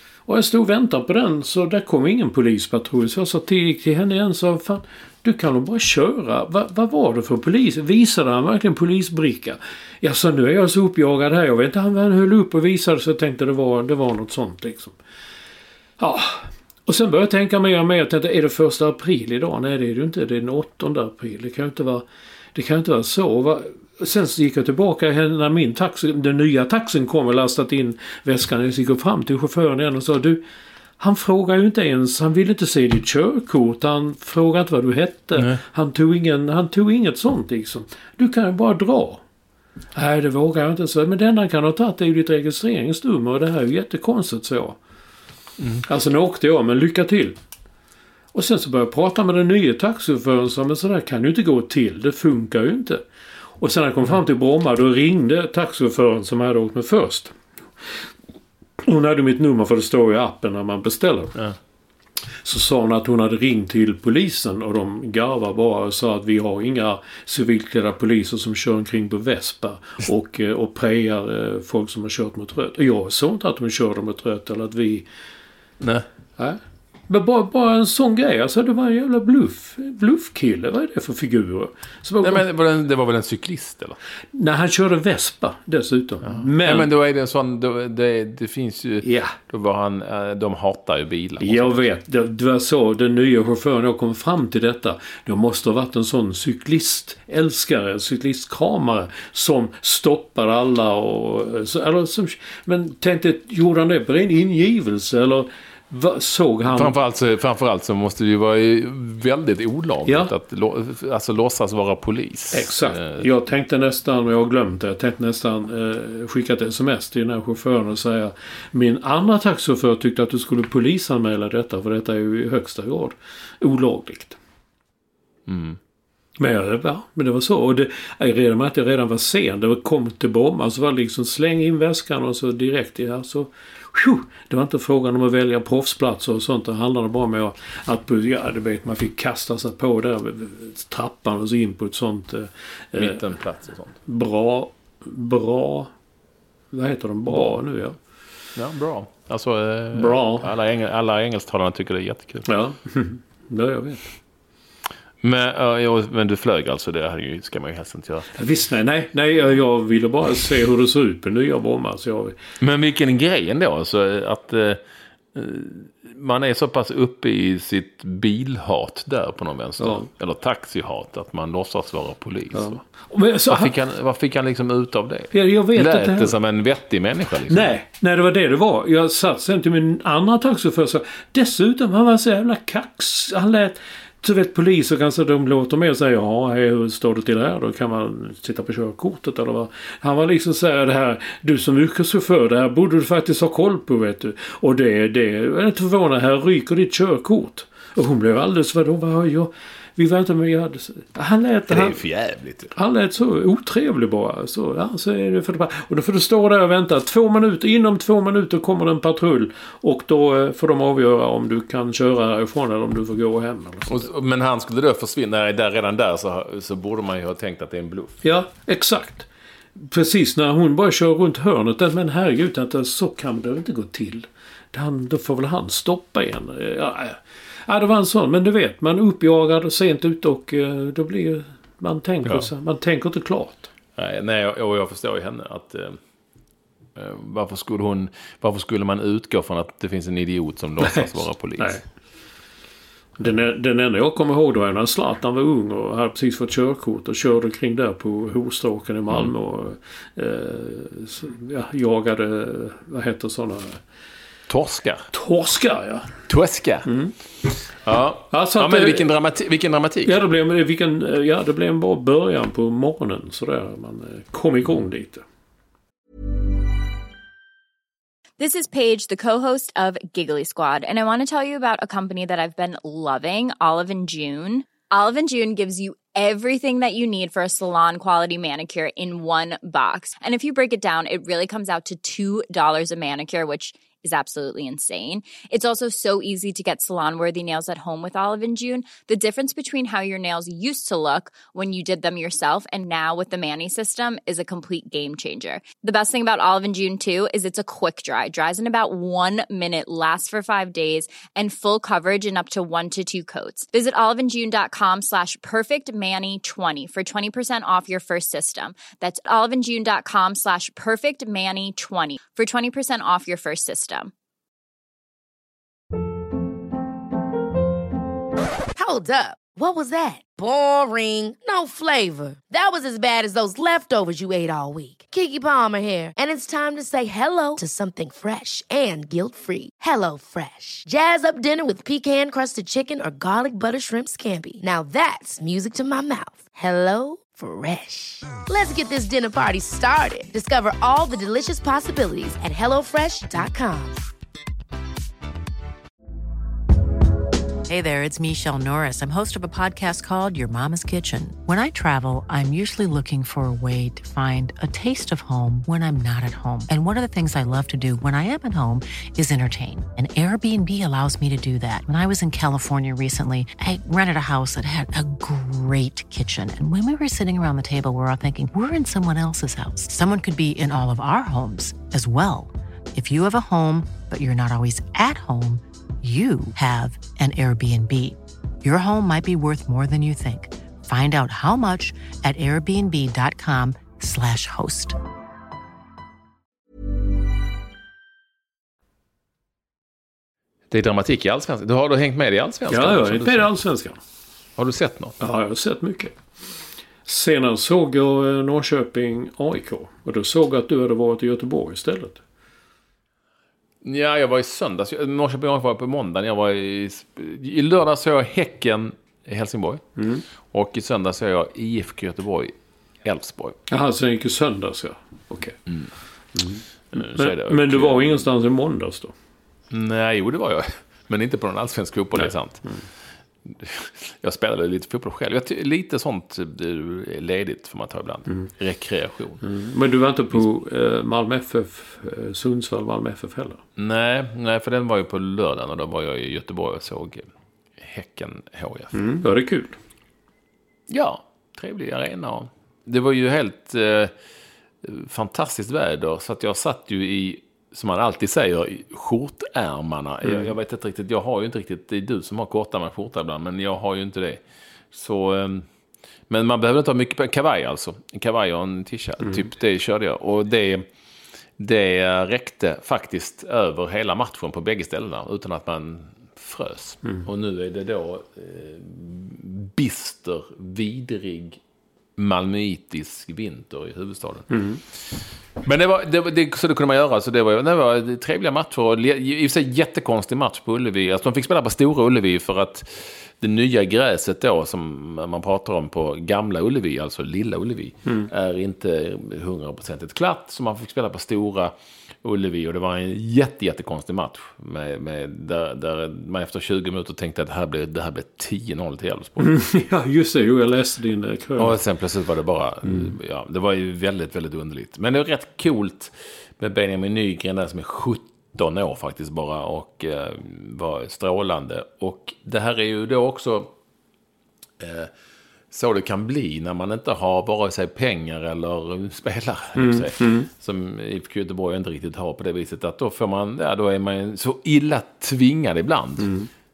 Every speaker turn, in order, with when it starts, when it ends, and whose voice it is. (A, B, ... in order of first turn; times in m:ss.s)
0:00.3-0:15.0 A
0:16.0-0:30.4 A
0:31.0-0:39.2 A
0:39.9-0:44.8 A
0:45.6-0:45.8 B
0:45.8-0:47.4 A
0:48.3-0:53.0 A
0:53.6-0:57.4 A
0:58.8-1:01.4 A
1:02.4-1:15.0 A
1:15.8-1:16.0 B
1:16.4-1:22.4 A
1:22.2-1:24.0 B
1:24.3-1:26.9 A
1:26.2-1:31.8 B
1:29.0-1:29.3 A
1:31.4-1:47.0 A
1:46.6-1:53.2 B
1:50.0-1:50.3 A
1:52.5-2:04.4 A
2:05.5-2:05.8 B
2:06.4-2:23.2 A
2:23.0-2:24.0 B
2:24.0-2:25.9 A
2:26.7-2:28.0 A
2:28.5-2:32.5 B
2:29.9-2:30.5 A
2:32.4-2:34.1 A
2:35.2-2:38.3 B
2:38.3-2:42.4 A
2:42.6-2:44.8 B
2:45.3-2:52.8 B
2:49.8-2:50.1 A
2:52.5-2:53.7 A
2:53.5-2:57.7 B
2:55.3-2:56.4 A
2:57.5-3:22.0 A
3:21.7-3:22.7 B
3:22.7-3:34.1 A
3:33.9-3:38.2 B
3:38.2-3:53.7 A
3:54.0-3:56.0 B
3:57.0-4:01.8 B
4:00.8-4:01.8 A
4:03.2-4:13.8 A
4:14.5-4:15.1 B
4:15.1-4:16.1 A
4:16.3-4:16.9 B
4:16.9-4:17.1 A
4:17.8-4:20.2 B
4:18.3-4:19.1 A
4:20.0-4:25.2 A
4:28.4-5:14.1 C
5:18.8-5:44.0 D
5:47.7-6:25.0 E
6:30.7-6:33.5 B
6:32.7-6:34.0 A
6:34.6-6:35.2 B
6:35.2-6:36.2 A
6:37.0-6:42.2 A
6:43.8-6:49.8 B
6:50.0-6:50.2 A
6:50.5-6:53.6 B
6:53.7-6:55.6 A
6:56.3-6:59.1 A
6:56.9-6:58.2 B
6:59.7-7:02.7 B
7:02.1-7:02.8 A
7:03.4-7:09.4 B
7:09.4-7:13.6 A
7:13.8-7:17.3 B
7:17.8-7:19.0 B
7:18.9-7:19.8 A
7:20.9-7:24.1 B
7:24.8-7:34.4 B
7:30.2-7:30.5 A
7:34.9-7:35.6 B
7:36.3-7:40.8 B
7:41.6-7:51.6 B
7:52.2-7:54.5 B
7:54.5-7:54.8 A
7:55.6-8:11.7 B
8:12.2-8:19.5 B
8:19.4-8:21.8 A
8:21.6-8:33.7 B
8:34.8-8:35.1 B
8:35.7-8:46.3 B
8:39.8-8:40.5 A
8:46.2-8:46.5 A